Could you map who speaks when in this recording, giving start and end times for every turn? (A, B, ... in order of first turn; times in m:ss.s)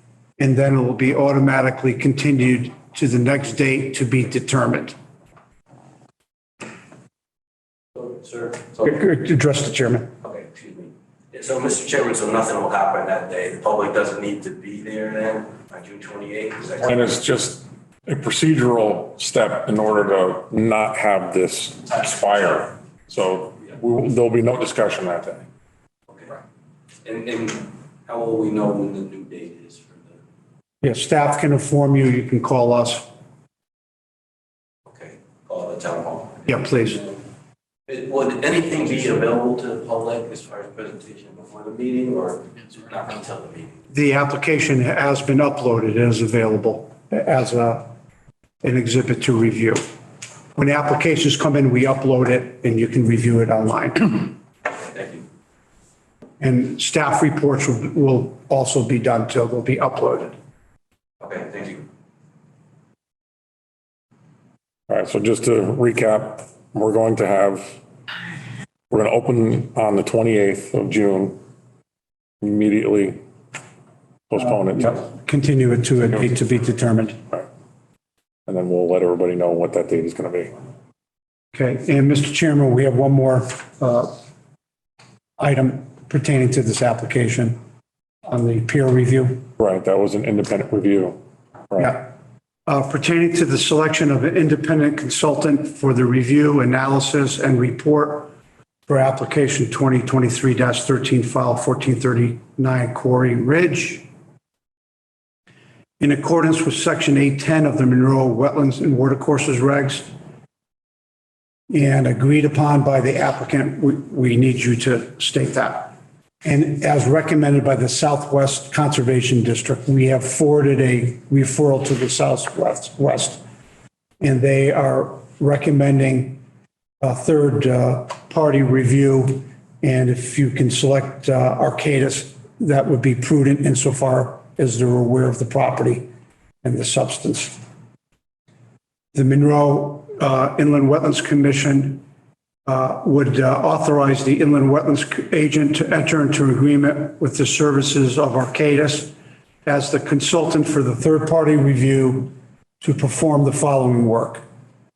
0:00.4-0:04.9 A
0:08.0-0:08.9 B
0:08.8-0:10.1 A
0:10.2-0:16.9 B
0:16.8-0:25.4 C
0:27.0-0:30.2 B
0:30.8-0:33.1 A
0:34.9-0:37.2 B
0:36.5-0:37.0 A
0:37.9-0:43.7 B
0:43.9-0:47.9 A
0:48.6-0:49.8 A
0:50.6-0:54.3 A
0:54.8-0:55.2 B
0:56.4-1:00.3 A
1:01.2-1:01.8 B
1:04.9-1:07.8 C
1:08.9-1:11.4 C
1:12.4-1:13.2 C
1:14.3-1:15.0 C
1:14.4-1:17.2 A
1:18.5-1:20.5 C
1:21.5-1:24.1 A
1:25.4-1:27.6 A
1:28.3-1:29.4 A
1:29.6-1:31.2 C
1:31.7-1:32.0 C
1:31.8-1:32.1 A
1:32.7-1:38.3 A
1:38.9-1:44.0 A
1:46.0-1:50.1 A
1:51.7-2:03.4 A
2:04.2-2:06.4 A
2:07.0-2:16.1 A
2:16.6-2:17.6 A
2:19.1-2:22.0 A
2:22.6-2:29.1 A
2:29.6-2:34.4 A